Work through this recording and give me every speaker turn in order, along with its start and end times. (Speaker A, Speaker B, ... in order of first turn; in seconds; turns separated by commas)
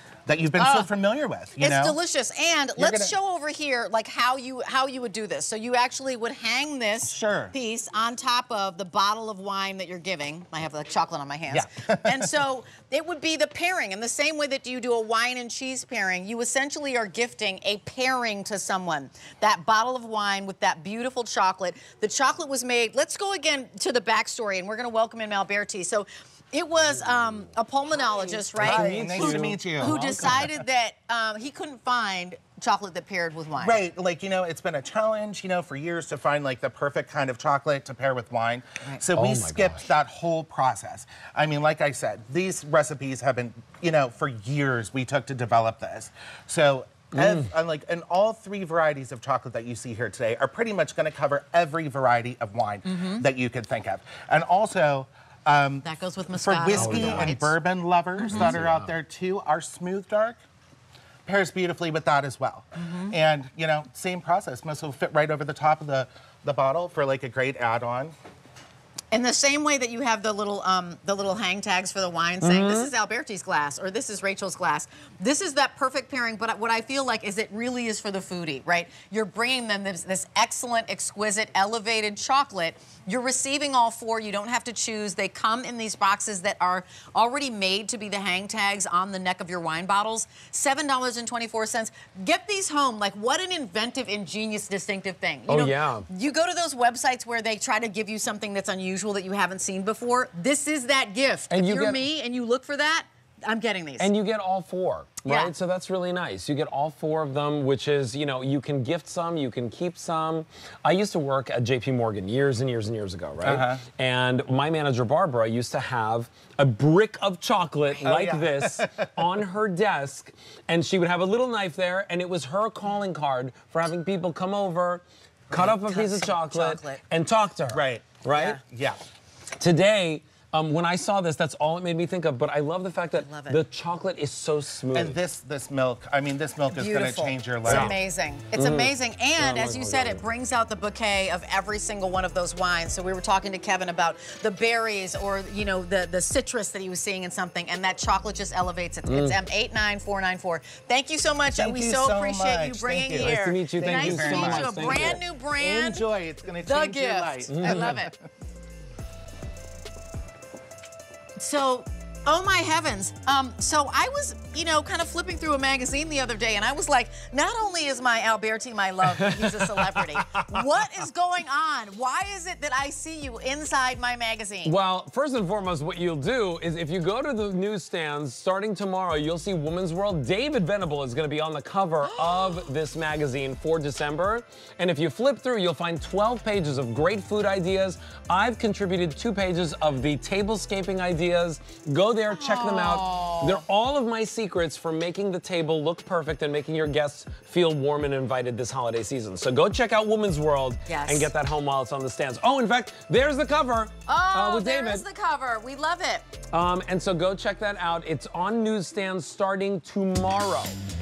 Speaker A: 0.3-2.0, Speaker B: 0.6-0.9, Speaker B: 1.6-33.8, Speaker A: 2.8-3.1, Speaker A: 7.0-7.5, Speaker A: 11.5-12.3, Speaker C: 28.4-30.6, Speaker A: 28.6-30.0, Speaker A: 33.6-60.4, Speaker C: 39.1-39.9, Speaker C: 47.1-47.5, Speaker B: 52.9-53.2, Speaker B: 55.8-57.5, Speaker C: 56.7-57.4, Speaker B: 58.2-58.5, Speaker C: 58.3-58.9, Speaker A: 61.3-68.1, Speaker B: 62.8-63.1, Speaker B: 69.1-104.1, Speaker C: 72.4-72.9, Speaker C: 95.5-96.1, Speaker C: 101.5-102.0, Speaker C: 104.0-128.6, Speaker B: 105.3-105.5, Speaker A: 113.4-113.8, Speaker A: 118.0-119.3, Speaker B: 125.5-127.0, Speaker A: 127.7-129.0, Speaker B: 128.3-128.6, Speaker C: 129.6-135.2, Speaker B: 133.1-133.6, Speaker A: 134.9-138.0, Speaker B: 136.7-156.1, Speaker C: 137.7-137.9, Speaker C: 138.5-140.2, Speaker C: 149.1-149.4, Speaker A: 151.6-158.2, Speaker C: 153.2-155.2, Speaker B: 156.6-158.1, Speaker C: 157.5-158.0, Speaker B: 161.4-174.8, Speaker C: 169.1-170.1, Speaker C: 174.7-205.1, Speaker B: 182.2-182.6, Speaker B: 192.3-193.6, Speaker B: 200.9-201.3, Speaker B: 204.1-206.2, Speaker C: 206.5-210.8